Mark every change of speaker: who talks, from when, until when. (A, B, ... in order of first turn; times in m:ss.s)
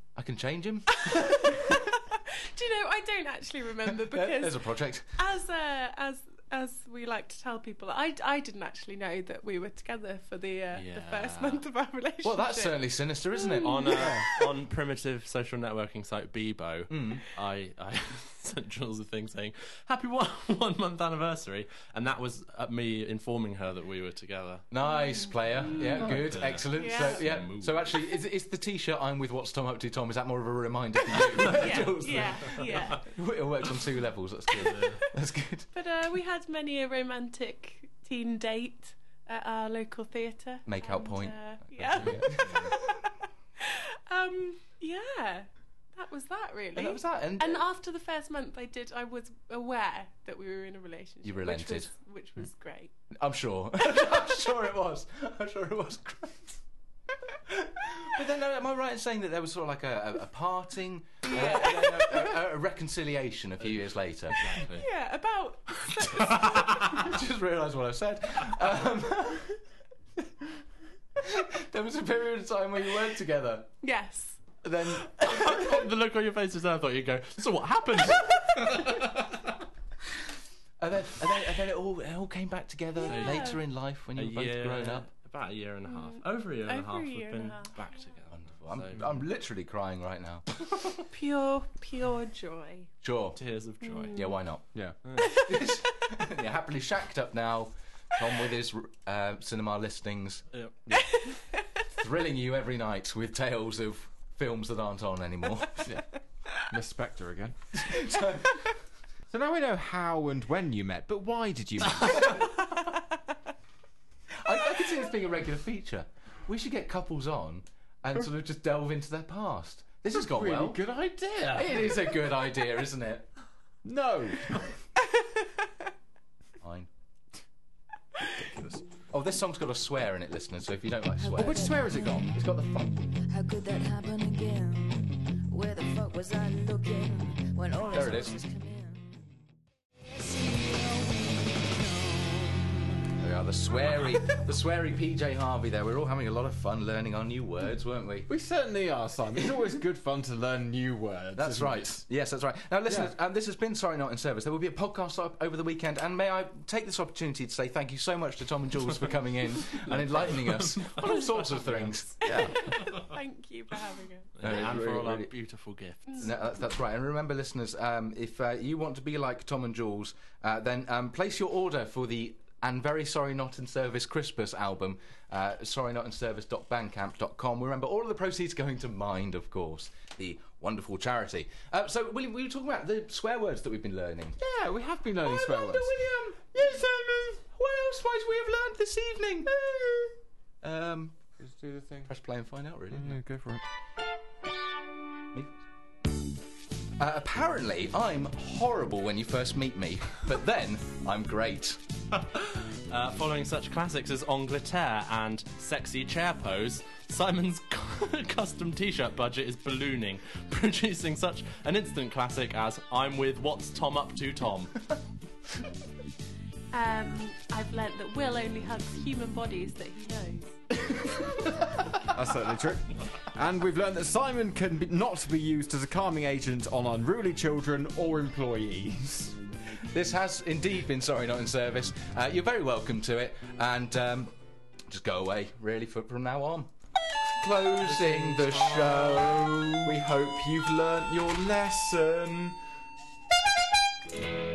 0:00.2-0:01.6 A
0:00.9-0:04.6 B
0:03.9-0:05.1 A
0:05.2-0:14.2 B
0:10.7-0:11.6 C
0:12.2-0:14.1 A
0:13.6-0:24.6 C
0:14.0-0:14.2 D
0:16.9-0:17.2 A
0:24.7-0:35.7 A
0:24.8-0:26.0 B
0:25.7-0:28.0 C
0:26.7-0:27.2 B
0:31.3-0:33.0 C
0:31.4-0:33.1 B
0:34.6-0:35.0 C
0:34.7-0:34.9 B
0:35.7-0:52.9 B
0:40.6-0:42.8 A
0:42.4-0:42.7 C
0:46.7-0:47.6 A
0:51.2-0:51.9 A
0:53.2-0:56.6 A
0:57.5-1:04.4 A
1:01.3-1:02.0 B
1:04.3-1:04.9 C
1:04.8-1:07.0 B
1:06.2-1:06.8 C
1:06.8-1:09.6 A
1:11.2-1:13.7 A
1:13.8-1:14.4 B
1:14.6-1:15.6 A
1:15.2-1:19.4 C
1:20.8-1:25.1 A
1:23.0-1:23.6 B
1:23.0-1:23.6 C
1:24.2-1:29.0 C
1:25.9-1:27.8 B
1:28.3-1:30.6 A
1:31.1-1:32.9 B
1:33.0-1:33.4 A
1:33.4-1:34.2 C
1:33.8-1:34.4 B
1:34.1-1:34.6 A
1:35.0-1:35.4 C
1:35.2-1:40.4 A
1:35.2-1:35.7 B
1:41.0-1:41.4 B
1:42.0-1:45.9 A
1:46.7-1:47.6 D
1:47.8-1:48.6 A
1:49.3-1:52.3 D
1:54.4-2:00.8 A
2:00.2-2:01.8 D
2:01.5-2:03.3 A
2:03.8-2:04.6 D
2:06.6-2:06.9 A
2:08.5-2:08.8 D
2:09.1-2:11.8 A
2:11.2-2:12.4 E
2:11.4-2:12.2 D
2:12.3-2:12.9 A
2:13.1-2:19.1 E
2:17.9-2:18.4 A
2:20.1-2:22.7 E
2:23.2-2:28.3 A
2:28.3-2:32.0 D
2:31.3-2:42.5 A
2:39.9-2:41.8 C
2:42.2-2:42.5 D
2:42.4-2:44.4 B
2:44.4-2:46.3 C
2:44.4-2:45.3 A
2:46.2-3:04.4 A
3:04.4-3:06.0 D
3:05.2-3:06.5 A
3:06.5-3:07.4 D
3:07.5-3:09.5 A
3:09.5-3:10.1 D
3:10.6-3:11.2 A
3:11.4-3:12.1 D
3:12.0-3:13.2 A
3:12.9-3:13.6 D
3:15.3-3:15.6 A
3:17.0-3:21.8 A
3:22.1-3:34.7 C
3:36.7-3:40.7 B
3:42.1-3:49.4 D
3:49.8-3:54.3 A
3:54.9-3:56.7 A
3:57.4-4:00.0 A
3:57.8-3:59.3 D
3:59.8-4:02.6 D